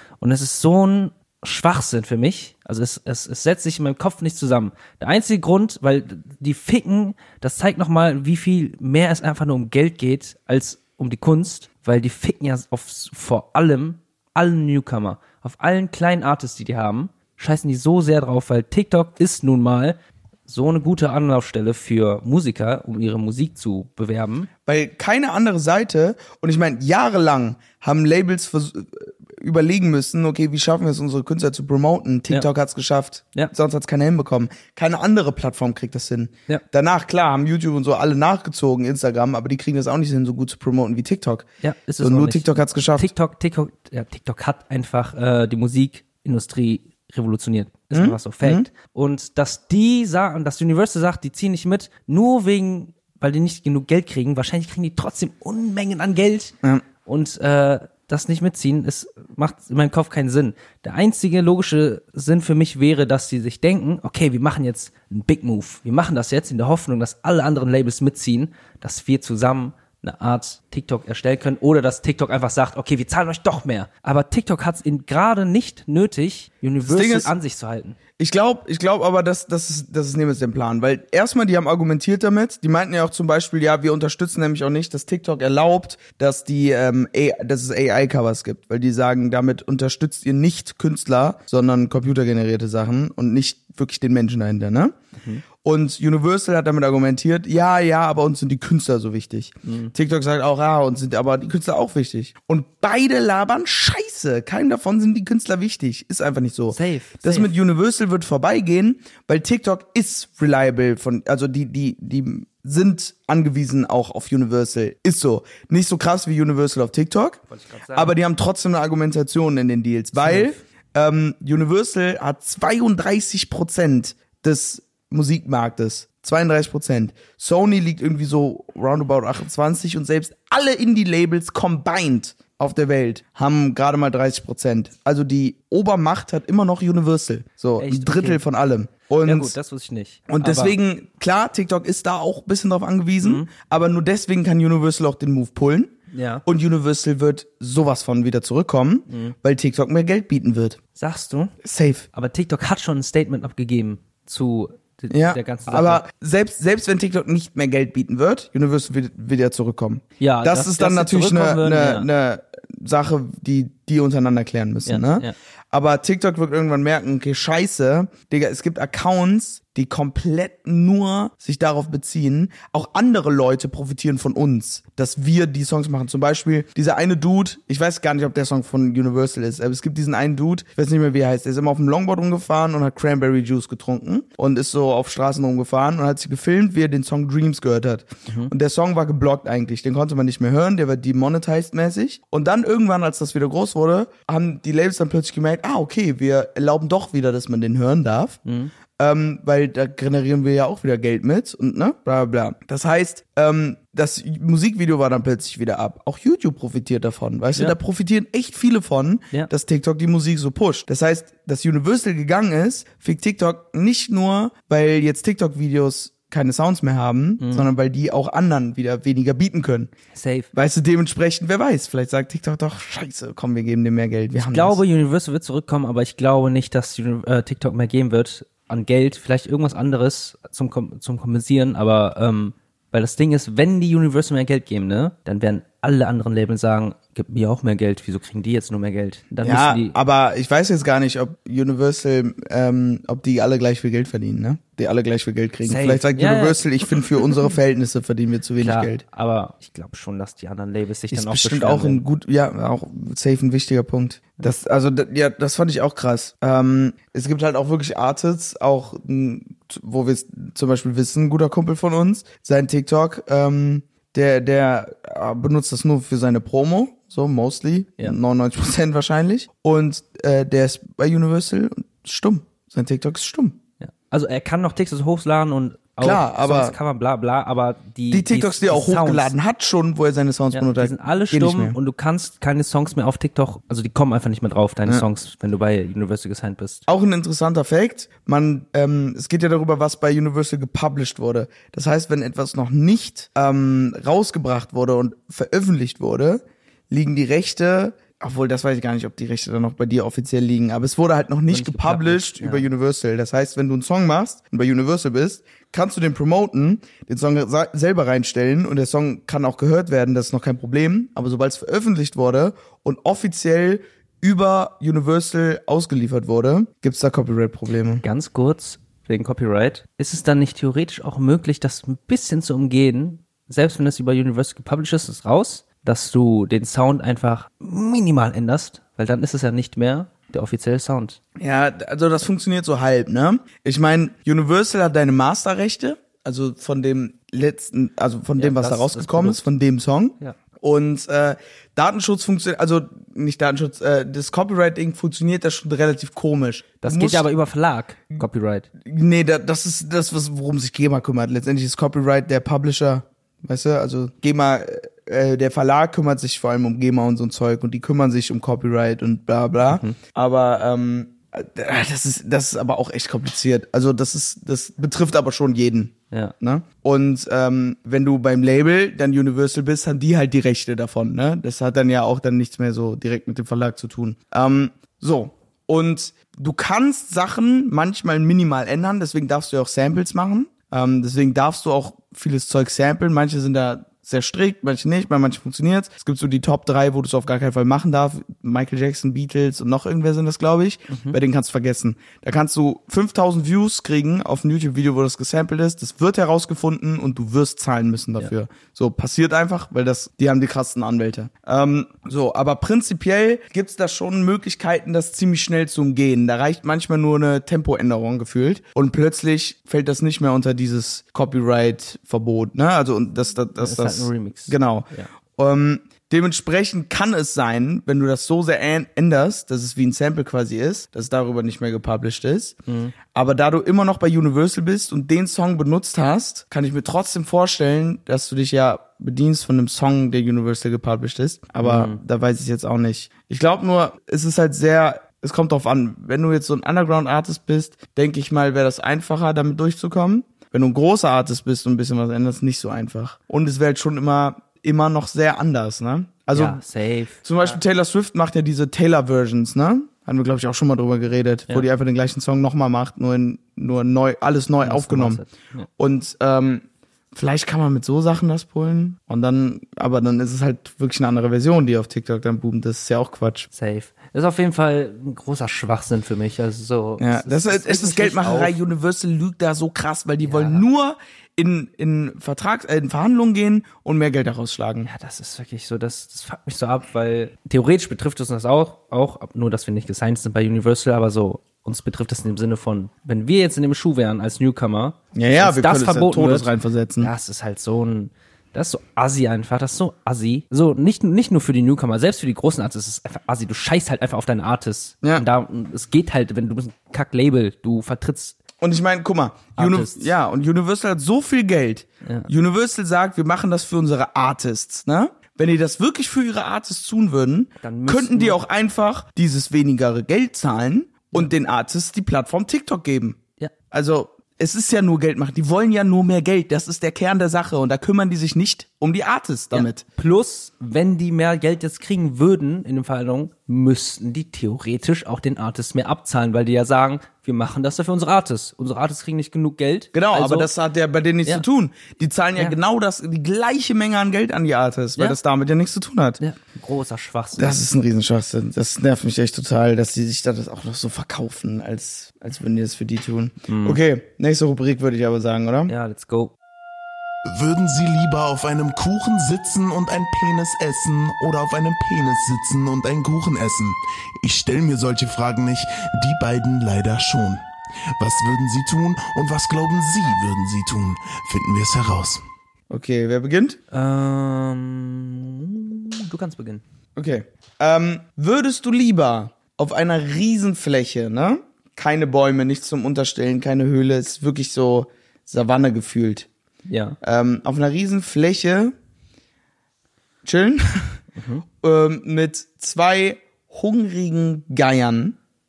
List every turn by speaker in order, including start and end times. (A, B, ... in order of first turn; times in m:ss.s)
0:00.2-0:24.5 A
0:24.7-0:41.5 B
0:41.6-1:18.0 A
0:42.0-0:43.1 B
0:47.9-0:48.7 B
1:16.8-1:17.3 B
1:18.2-1:35.0 B
1:35.6-1:57.4 B
1:39.6-1:39.9 A
1:46.7-1:47.5 A
1:57.5-1:58.2 A
1:57.9-2:19.6 B
2:00.2-2:00.6 A
2:17.8-2:18.4 A
2:19.2-2:20.8 A
2:20.3-2:25.9 B
2:23.2-2:23.5 A
2:26.1-2:26.4 A
2:26.4-2:30.8 B
2:29.1-2:29.4 A
2:31.0-2:31.6 A
2:31.6-2:32.1 B
2:32.1-2:36.0 A
2:35.1-3:18.4 B
2:40.2-2:42.1 A
2:44.9-2:45.4 A
3:18.5-3:18.7 A
3:19.0-3:39.9 B
3:37.4-3:37.7 A
3:40.1-3:40.5 A
3:40.5-3:44.8 B
3:44.4-4:00.0 A
3:59.4-4:09.0 B
4:05.6-4:07.0 A
4:08.6-4:12.0 A
4:11.1-4:33.6 B
4:33.8-4:39.3 A
4:36.0-4:36.8 B
4:38.1-4:41.8 B
4:40.5-4:46.8 A
4:46.9-5:18.0 B
5:01.5-5:02.7 A
5:18.0-5:31.2 A
5:31.4-5:47.3 B
5:38.4-5:39.4 A
5:46.8-5:48.7 A
5:48.8-7:02.6 B
5:59.7-6:00.0 A
6:30.9-6:31.2 A
6:53.6-6:55.1 A
7:02.7-7:02.9 A
7:03.1-7:26.6 B
7:11.6-7:12.0 A
7:26.3-7:27.6 A
7:27.2-7:35.2 B
7:34.6-7:35.7 A
7:35.8-7:43.5 B
7:43.5-7:48.6 A
7:47.0-7:54.9 B
7:50.2-7:50.6 A
7:54.8-8:18.4 A
8:05.1-8:07.1 B
8:18.6-8:33.2 B
8:19.6-8:20.1 A
8:22.0-8:22.3 A
8:27.6-8:28.4 A
8:33.7-8:39.8 B
8:39.5-8:50.5 A
8:49.9-8:56.2 B
8:56.2-8:57.6 A
8:57.4-9:05.7 B
9:03.5-9:03.8 A
9:05.7-9:06.3 A
9:07.3-9:17.5 C
9:18.0-9:22.2 C
9:22.7-9:23.6 B
9:23.7-9:26.6 A
9:27.0-9:36.3 B
9:36.7-9:37.0 A
9:37.0-9:38.8 B
9:40.2-9:41.0 B
9:41.2-9:41.4 A
9:41.6-9:45.2 B